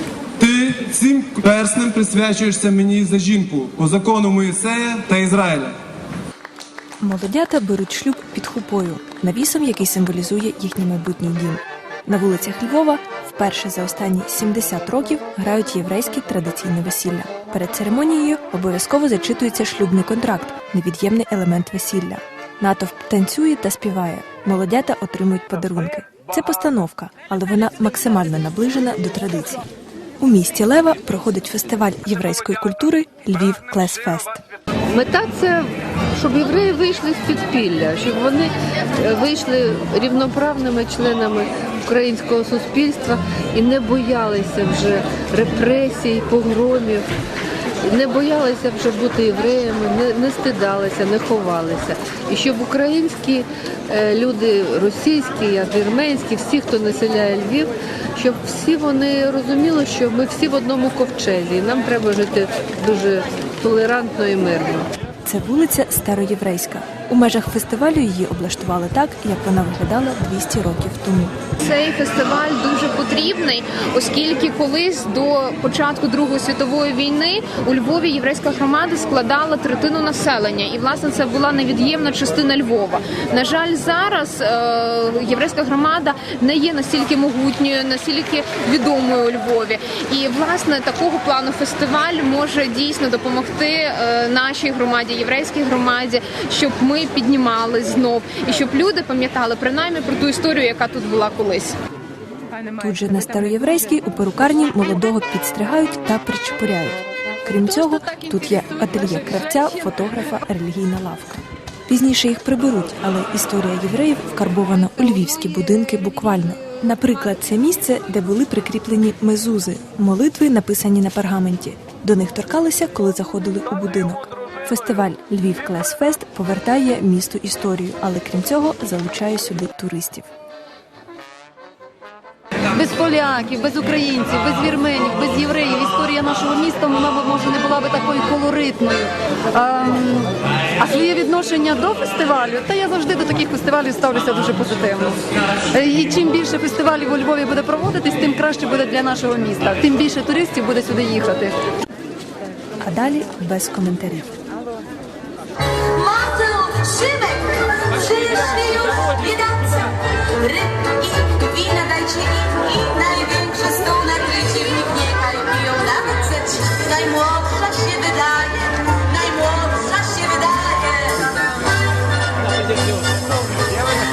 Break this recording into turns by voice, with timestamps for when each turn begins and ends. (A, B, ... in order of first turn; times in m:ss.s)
0:00.4-0:05.8 A
0:07.0-0:29.6 B
0:30.2-0:34.4 B
0:34.9-0:47.1 C
0:47.8-1:04.9 C
1:05.3-1:11.3 B
1:11.6-1:41.8 D
1:42.8-2:10.3 B
2:12.7-2:31.6 E
2:32.8-2:34.3 B
2:35.8-2:39.8 F
2:40.4-2:51.2 F